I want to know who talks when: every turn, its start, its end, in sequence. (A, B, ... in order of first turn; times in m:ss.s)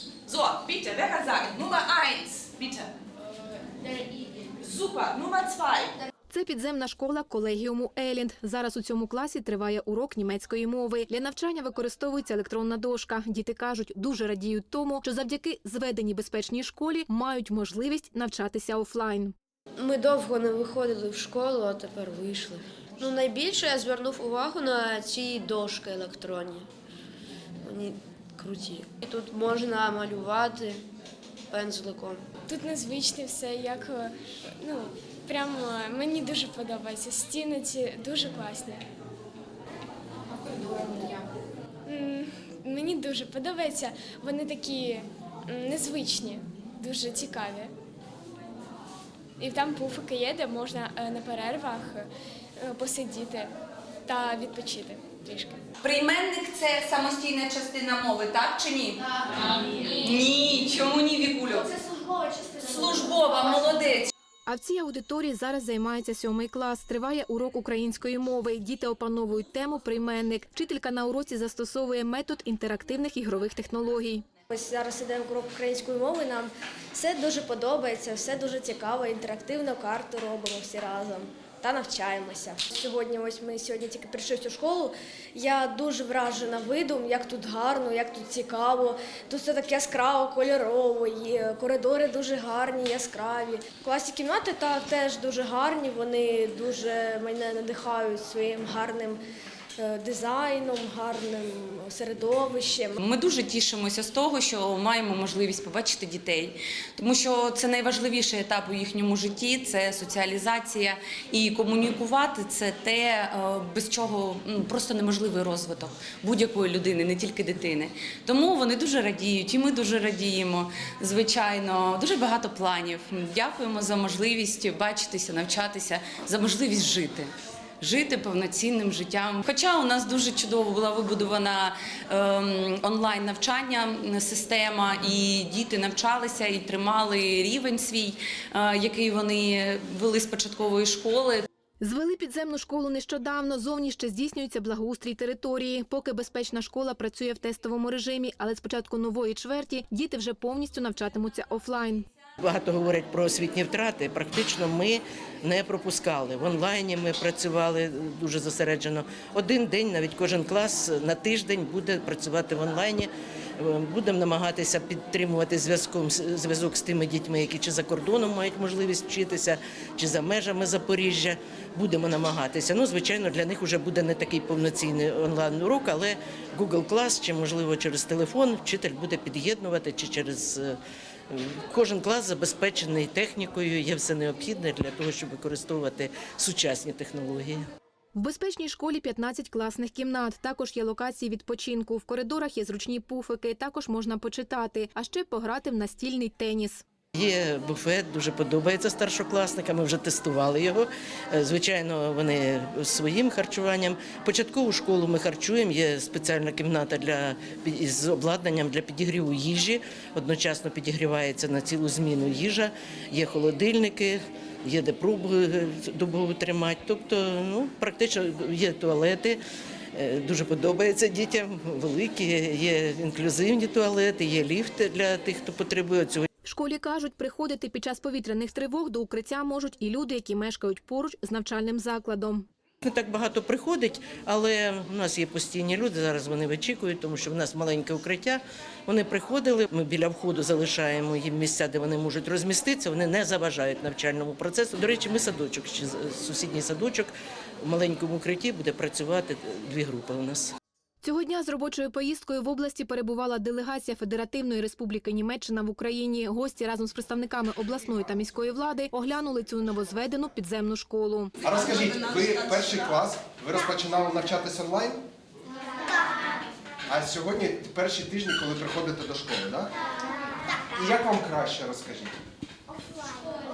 0:00.2-0:02.9 A
0:04.6-0:05.9 A
0:06.3-0:19.3 B
0:19.8-0:26.6 C
0:27.6-0:30.8 C
0:31.5-0:32.2 C
0:32.5-0:38.8 D
0:41.8-0:47.7 D
0:49.4-0:52.0 D
0:52.6-0:53.5 D
0:54.1-0:55.6 D
0:55.8-1:01.8 E
1:02.5-1:04.1 E
1:04.4-1:14.2 B
1:14.5-1:39.2 F
1:39.8-1:43.0 F
1:43.0-2:21.4 E
2:21.8-2:32.0 B
2:32.4-3:07.6 G
3:08.1-3:16.8 B
3:17.1-3:39.4 G
3:39.9-3:46.3 G
3:46.4-3:52.5 B
3:52.8-4:10.6 G
4:11.0-4:21.3 B
4:21.4-4:25.0 H
4:26.9-4:29.7 H
4:30.7-4:32.2 H